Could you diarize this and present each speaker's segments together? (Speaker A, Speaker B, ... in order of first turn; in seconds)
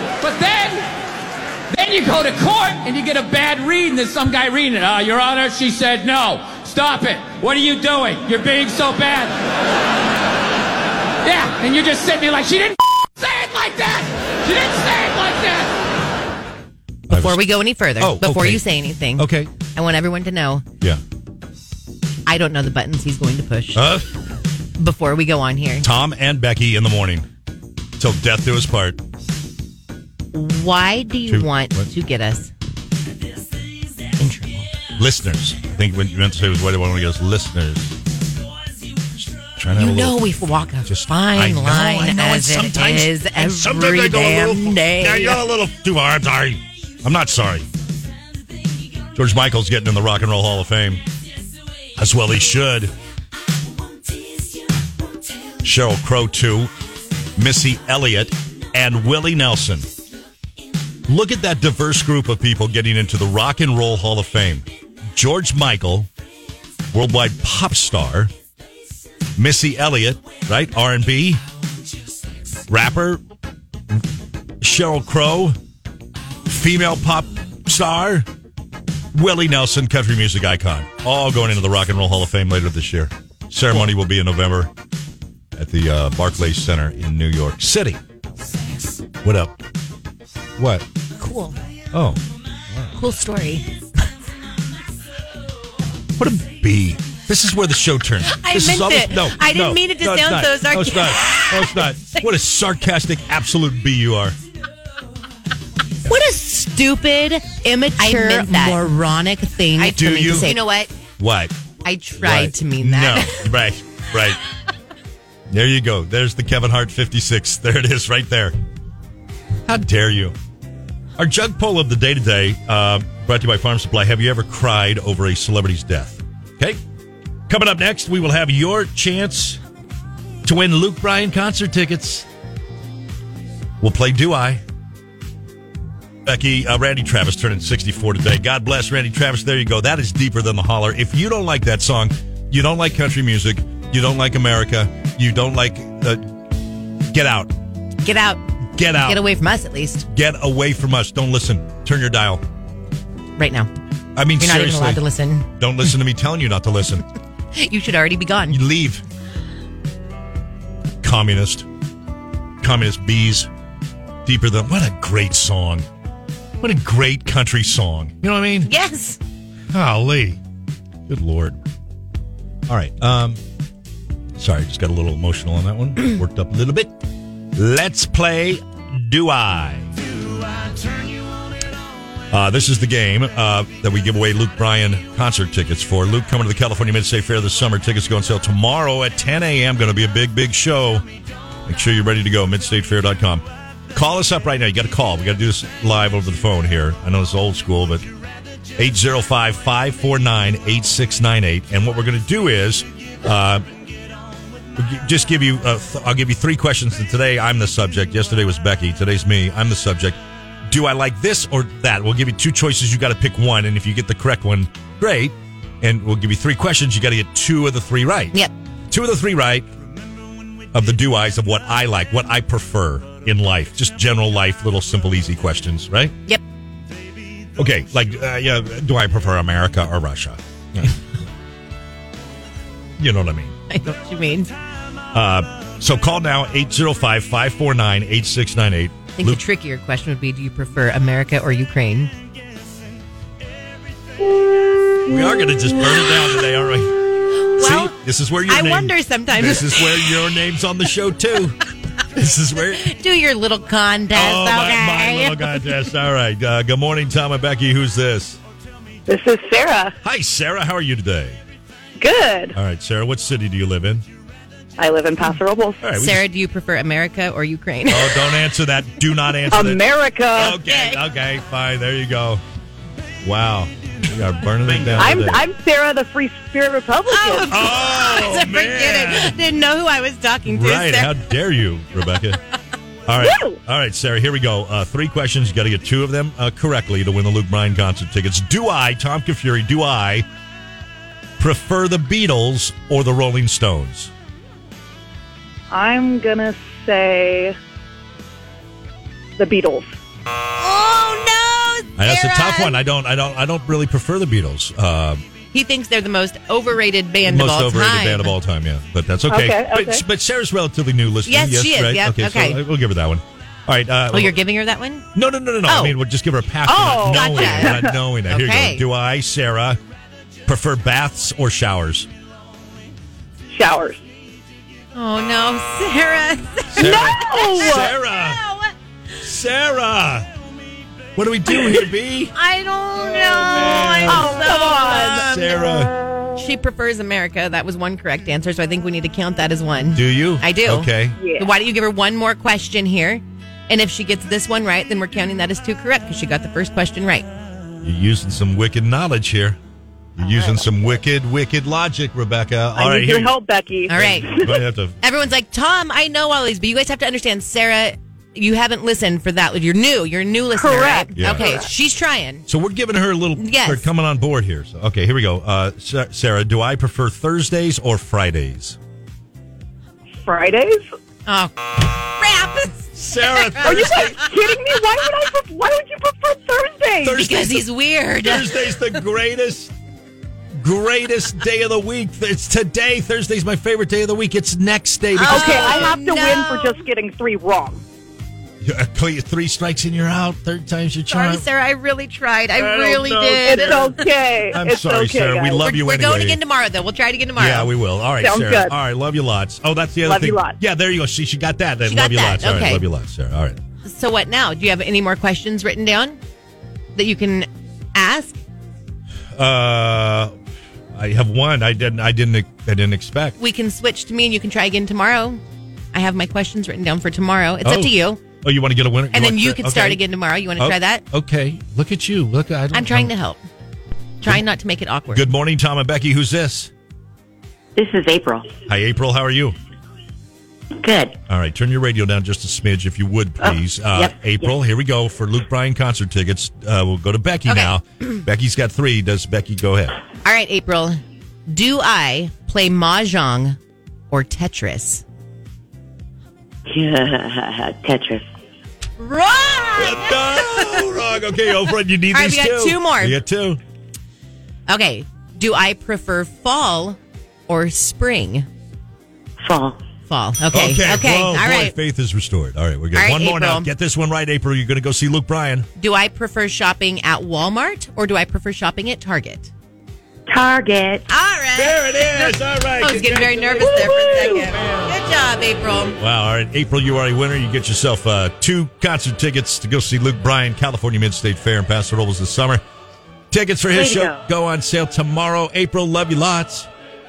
Speaker A: 0.2-0.9, 1.7-9.3, 11.2-15.7
Speaker B: 17.1-19.5, 23.8-24.1, 25.8-27.3, 28.0-29.0, 31.3-31.9, 35.0-38.0, 39.3-40.2, 40.9-47.7, 49.1-51.0, 52.0-53.0, 55.6-56.7, 57.4-59.9, 61.1-66.1, 66.9-68.3, 69.4-71.4, 72.7-73.2, 74.6-75.6, 76.5-78.3, 79.1-84.7, 85.6-88.0, 89.2-89.6, 90.6-90.8, 91.9-93.0, 96.2-104.4, 109.8-110.6, 111.2-111.5, 112.2-114.4, 115.5-118.6, 119.7-120.4, 121.2-126.8, 127.5-129.6, 130.4-132.3, 133.8-134.6, 136.3-146.2, 147.1-147.5, 148.8-149.3, 150.1-152.4, 154.2-157.0, 158.5-159.0, 161.0-161.7, 162.6-163.5, 164.2-165.9, 166.6-168.7, 169.7-170.4, 171.1-171.6, 172.7-173.4, 174.4-176.9, 177.6-179.9, 182.3-191.1, 191.7-198.1, 198.8-203.7, 204.8-218.4, 218.9-219.7, 220.7-226.1, 227.6-230.9, 233.0-233.6, 235.1-239.4, 245.1-247.0, 247.5-251.6, 252.1-252.9, 254.1-258.4, 260.0-261.4, 262.6-264.1, 265.8-266.2, 267.9-272.4, 273.2-275.4, 277.5-279.4, 280.5-282.4, 283.1-290.3, 291.4-294.1, 302.0-305.2, 307.3-314.4, 315.1-319.8, 320.5-322.1, 326.7-328.4, 329.2-330.3, 331.2-332.3, 333.2-335.9, 339.9-341.2, 347.8-349.6, 350.2-353.4, 353.9-355.0, 361.2-361.6, 362.5-368.8, 373.0-374.2, 377.0-377.7, 378.2-379.7, 380.6-385.9, 388.6-391.5, 392.6-396.4, 397.4-403.6, 409.3-410.4, 410.9-413.4, 417.6-420.1, 420.6-423.1, 425.1-426.7, 428.7-429.6, 431.3-440.0, 449.8-453.6, 460.5-465.7, 471.5-475.0, 476.0-482.6, 483.3-486.7
Speaker C: 17.1-20.6, 22.3-23.9, 24.8-25.9, 30.3-32.5, 34.2-34.7, 39.7-45.4, 91.2-91.6, 93.0-93.7, 98.3-102.2, 106.1-110.9, 111.8-113.5, 148.0-148.4, 148.9-150.1, 153.4-153.7, 154.4-155.5, 157.5-158.6, 168.7-169.2, 233.7-234.5, 239.2-242.1, 247.4-247.9, 248.5-250.3, 252.8-255.7, 265.9-268.5, 270.4-271.0, 277.1-281.2, 300.6-302.8, 305.5-308.3, 311.3-312.6, 314.1-315.1, 315.6-316.0, 316.7-318.9, 324.9-328.7, 332.3-335.6, 336.4-347.3, 353.9-354.4, 355.0-362.5, 363.4-363.9, 371.3-374.3, 377.1-378.9, 385.1-386.8, 391.1-394.1, 395.5-397.7, 401.9-402.9, 403.9-406.2, 406.9-408.4, 413.4-415.4, 415.9-418.2, 419.1-421.0, 422.7-423.4, 424.2-425.3, 437.5-437.7, 440.2-443.6, 444.1-445.0, 449.0-450.9, 452.1-453.2, 454.7-458.5, 460.1-461.8, 462.9-463.7, 465.8-469.5, 471.1-476.0
Speaker D: 259.1-259.9, 262.0-262.6, 264.8-265.8, 269.5-270.6, 274.9-277.6, 283.2-283.6, 295.7-297.6, 299.4-299.9, 309.3-310.1, 316.7-317.9, 323.5-324.0, 326.8-327.9, 334.0-335.3, 341.2-341.5, 350.2-350.7, 352.8-354.6, 360.6-361.7, 370.3-370.8, 373.6-377.2, 385.2-387.8, 393.4-395.6, 398.2-398.7, 400.0-400.6
Speaker E: 427.8-428.5, 430.8-431.2, 433.4-434.5, 446.7-448.3, 459.4-459.8, 470.3-471.1, 483.7-484.2